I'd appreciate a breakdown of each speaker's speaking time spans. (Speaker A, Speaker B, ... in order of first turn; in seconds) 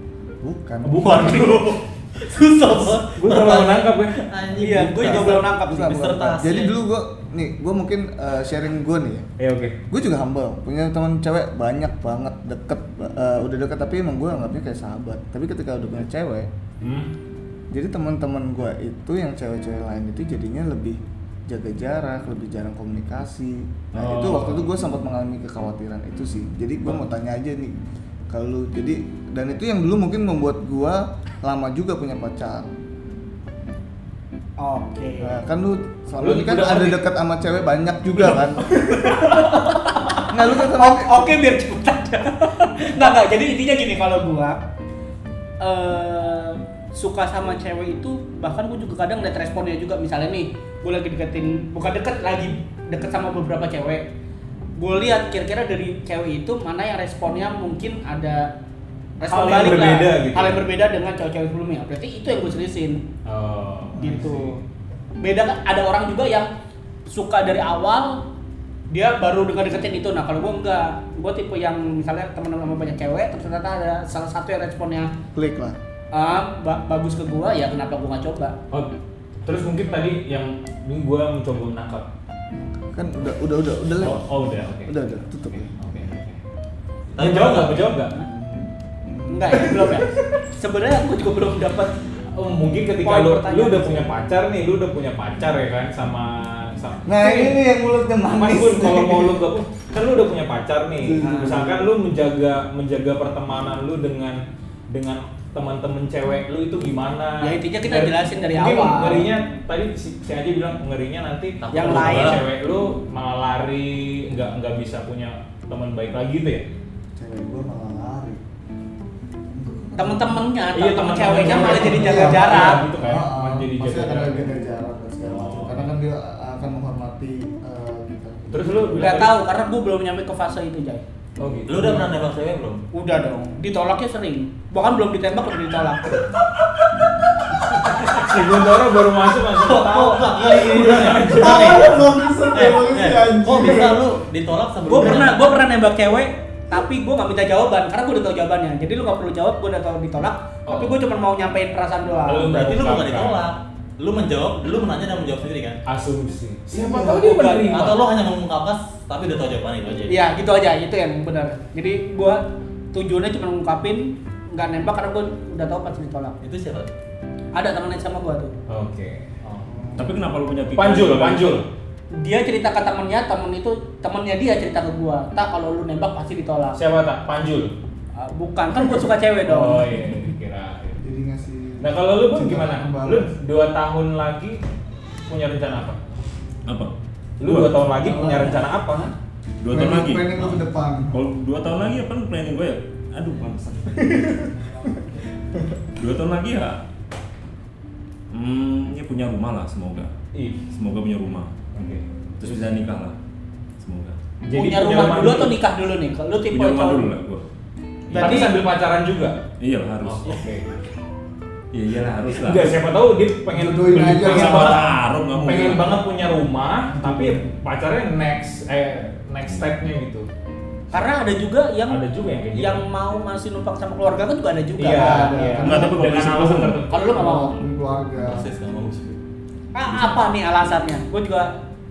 Speaker A: 0.4-1.6, 4.9-9.3, 9.9-16.5, 17.7-27.8, 28.3-32.7, 35.2-38.7, 40.3-41.3, 75.3-75.8, 82.8-84.2, 84.8-86.1, 88.2-90.1, 97.0-99.4, 101.0-101.9, 117.2-118.4, 119.5-120.5, 121.4-129.2, 141.1-144.1, 169.6-170.1, 181.0-183.3, 187.9-188.7, 189.7-191.2, 208.1-208.5, 213.5-214.9, 216.9-217.4, 224.9-226.0, 227.1-228.5
Speaker B: 0.8-1.6, 3.1-4.2, 9.4-9.8, 16.8-17.1, 23.9-24.7, 36.2-37.0, 59.3-60.6, 63.2-64.6, 79.4-82.1, 84.0-86.4, 87.2-88.1, 92.3-97.6, 98.3-116.6, 120.7-124.5, 125.2-125.9, 128.5-129.3, 131.4-132.1, 138.0-141.7, 150.7-151.0, 152.2-153.4, 155.8-158.0, 168.7-169.6, 170.7-171.7, 176.8-177.7, 179.4-181.0, 181.8-184.6, 185.3-186.0, 187.4-189.1, 200.3-200.6, 201.7-202.6, 204.4-205.6, 208.1-209.4, 210.0-210.8, 212.4-220.3, 221.9-222.8, 224.8-227.2
Speaker C: 1.0-6.7, 87.1-88.0, 111.6-112.4, 131.7-132.8, 139.6-145.6, 152.5-155.8, 157.0-160.2, 166.4-166.9, 228.2-229.2
Speaker D: 4.6-6.3, 34.6-35.4, 38.6-44.6, 45.6-54.0, 54.8-58.5, 59.2-63.0, 64.0-64.6, 65.2-66.5, 67.1-68.2, 68.9-75.1, 76.1-78.5, 89.3-91.9, 93.0-94.1, 101.2-101.6, 107.4-109.3, 111.7-112.4, 120.0-122.8, 128.9-131.0, 132.9-136.2, 144.9-152.5, 160.1-166.3, 167.5-168.5, 172.2-176.8, 178.2-180.0, 204.5-207.1, 208.1-208.5, 220.9-222.0, 222.5-225.6, 226.9-227.6, 229.7-231.5
Speaker E: 169.9-171.6, 186.7-187.9, 189.6-194.5, 196.0-196.8, 198.3-200.1, 200.7-201.5, 202.4-203.2, 203.8-204.2, 206.5-207.5, 208.1-208.4, 209.6-210.4, 211.7-212.8, 214.1-216.1, 225.6-226.9, 229.9-230.2